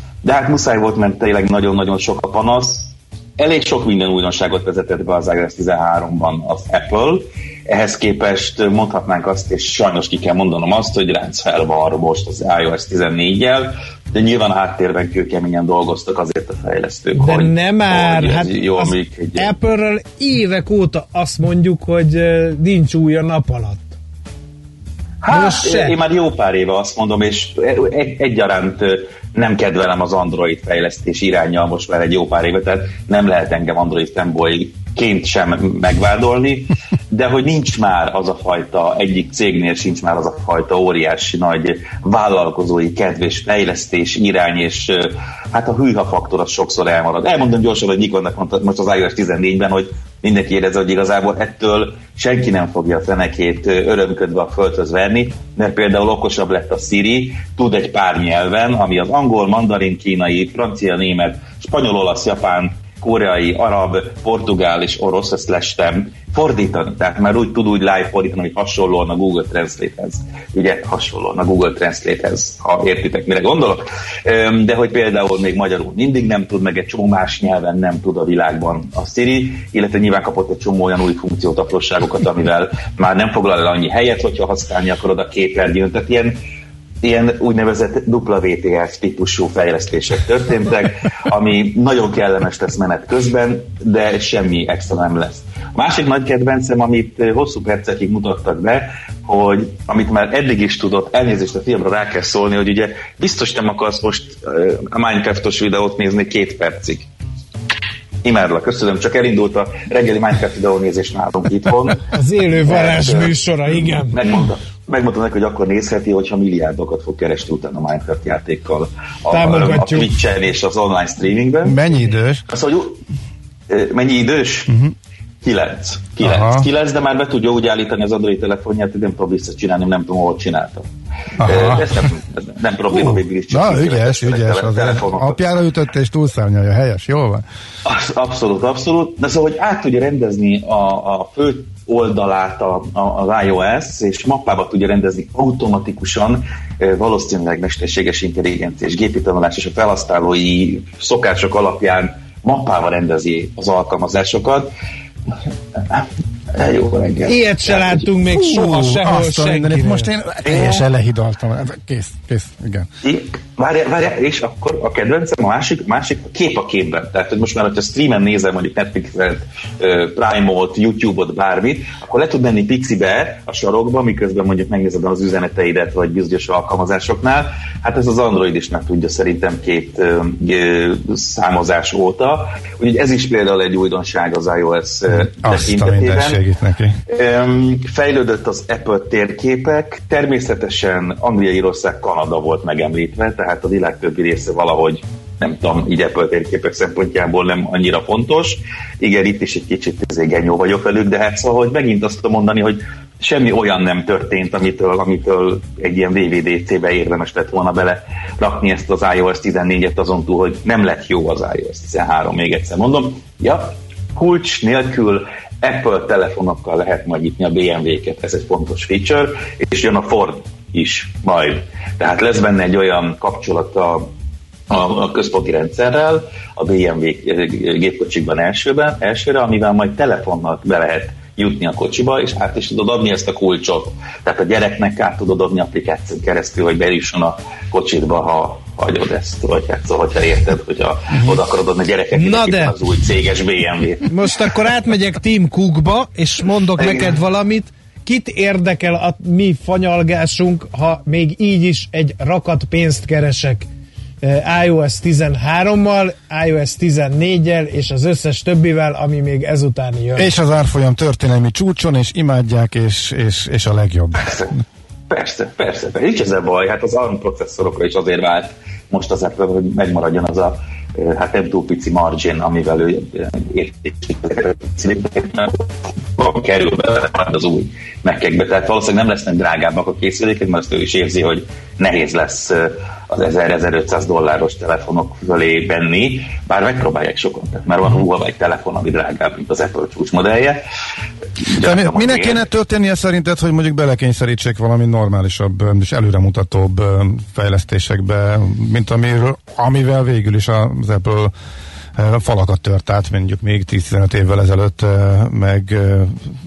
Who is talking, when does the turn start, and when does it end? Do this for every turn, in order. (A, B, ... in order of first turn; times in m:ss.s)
0:00.2-0:19.5 A
0:17.2-0:23.9 B
0:25.2-1:26.4 A
0:25.3-0:26.0 B
1:27.0-1:47.1 A
1:48.2-1:52.0 A
1:52.1-1:54.2 B
1:52.6-1:53.4 A
1:54.0-2:01.8 A
1:59.3-2:00.1 B
2:01.6-2:02.4 C
2:02.5-2:03.0 A
2:03.7-2:04.7 A
2:04.7-2:04.9 C
2:05.4-2:10.9 A
2:06.2-2:06.6 C
2:11.4-2:11.9 C
2:11.4-2:15.4 A
2:12.9-2:17.4 C
2:17.8-2:34.7 A
2:35.9-2:38.0 A
2:37.2-2:40.1 B
2:38.3-2:42.9 C
2:40.4-2:40.8 A
2:43.0-3:06.4 A
3:05.1-3:07.0 C
3:07.1-3:44.1 A
3:44.7-4:04.1 A
4:02.1-4:02.7 B
4:04.0-4:13.7 B
4:06.8-4:07.1 A
4:14.2-4:20.3 B
4:20.1-4:24.2 C
4:24.2-4:24.5 A
4:25.1-4:50.6 A
4:51.4-4:52.4 A
4:51.6-5:01.3 C
5:02.0-5:06.3 C